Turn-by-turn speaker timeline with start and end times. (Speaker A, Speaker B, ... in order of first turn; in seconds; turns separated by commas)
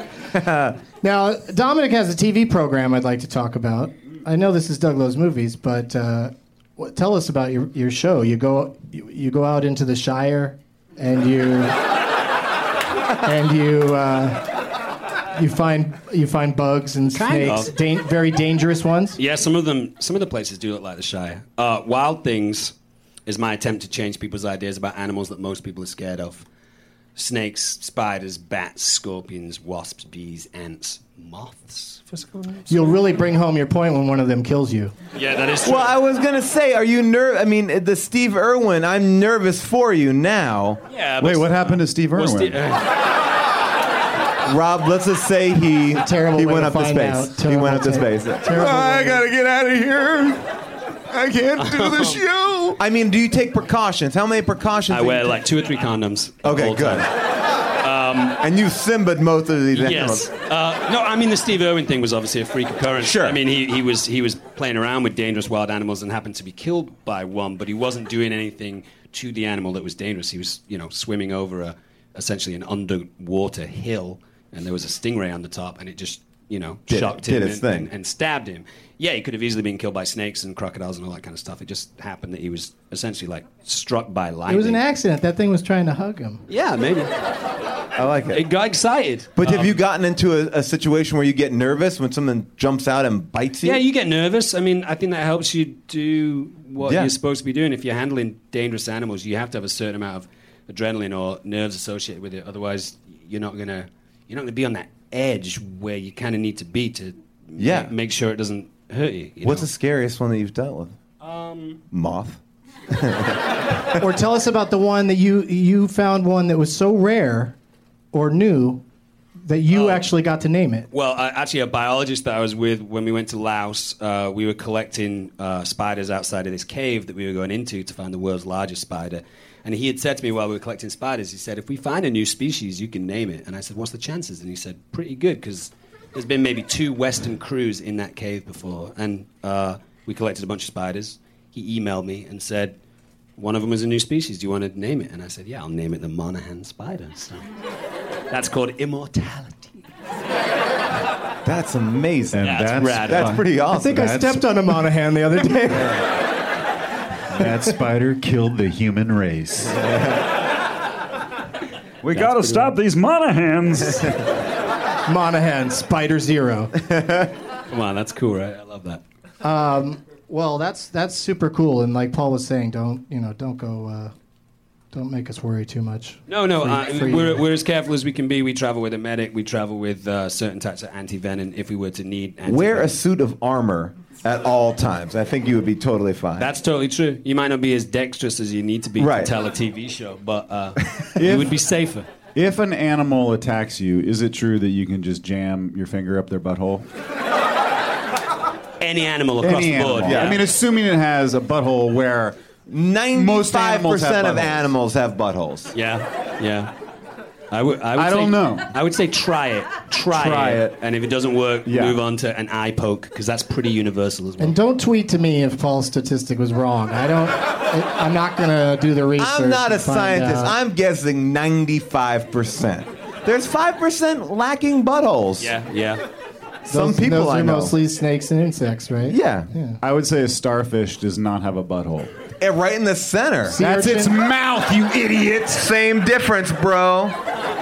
Speaker A: 0.3-0.8, Speaker B: 1.0-11.8, Speaker B: 13.2-14.4, Speaker B: 15.3-19.2, Speaker C: 17.1-17.7, Speaker C: 19.2-22.7, Speaker C: 23.2-26.4, Speaker C: 27.1-33.0, Speaker B: 32.7-34.9, Speaker C: 35.1-36.0, Speaker A: 35.6-40.8, Speaker C: 40.9-42.9, Speaker D: 41.2-42.6, Speaker A: 44.4-50.1, Speaker B: 45.9-49.2, Speaker D: 49.0-50.3, Speaker D: 51.1-52.8, Speaker C: 51.5-52.2, Speaker A: 52.8-55.4, Speaker C: 54.9-57.1, Speaker A: 56.4-57.1, Speaker C: 57.8-58.4, Speaker A: 58.4-60.3, Speaker C: 59.7-84.8, Speaker A: 63.0-63.4, Speaker A: 76.9-77.9, Speaker B: 84.5-86.4, Speaker C: 86.5-87.1, Speaker A: 88.0-88.4, Speaker C: 88.3-89.8, Speaker A: 89.4-93.8, Speaker C: 93.6-109.7, Speaker A: 96.8-97.1, Speaker A: 107.6-107.9, Speaker A: 109.4-110.9, Speaker C: 111.2-111.8, Speaker A: 111.9-113.9, Speaker B: 114.0-117.5, Speaker B: 118.1-118.8, Speaker B: 119.4-120.9, Speaker C: 119.7-120.0, Speaker C: 120.9-142.8, Speaker C: 143.4-147.4, Speaker C: 148.3-149.8, Speaker A: 151.4-154.0, Speaker D: 152.3-154.4, Speaker C: 152.4-153.3, Speaker B: 153.7-156.0, Speaker D: 157.3-159.9, Speaker D: 162.0-164.2, Speaker C: 162.2-162.7, Speaker B: 165.1-166.7, Speaker C: 167.7-169.0, Speaker B: 169.4-174.1, Speaker B: 174.9-177.4, Speaker C: 176.3-182.9, Speaker A: 182.4-186.5, Speaker C: 186.4-192.1, Speaker A: 189.0-189.3, Speaker D: 191.2-191.6, Speaker D: 192.3-196.8, Speaker C: 198.8-200.4, Speaker D: 199.4-202.3, Speaker A: 200.0-200.4, Speaker A: 202.7-205.7, Speaker D: 203.1-204.7, Speaker C: 205.7-206.7, Speaker C: 207.5-214.6, Speaker D: 207.9-208.7, Speaker D: 210.1-210.7, Speaker D: 211.7-212.0, Speaker B: 214.4-220.5, Speaker A: 219.2-225.5, Speaker C: 225.4-226.0, Speaker A: 226.7-227.7, Speaker B: 226.7-229.8, Speaker A: 229.1-229.5, Speaker D: 229.8-232.1, Speaker A: 232.4-233.6, Speaker B: 233.5-234.1, Speaker D: 233.6-235.7, Speaker A: 235.5-237.2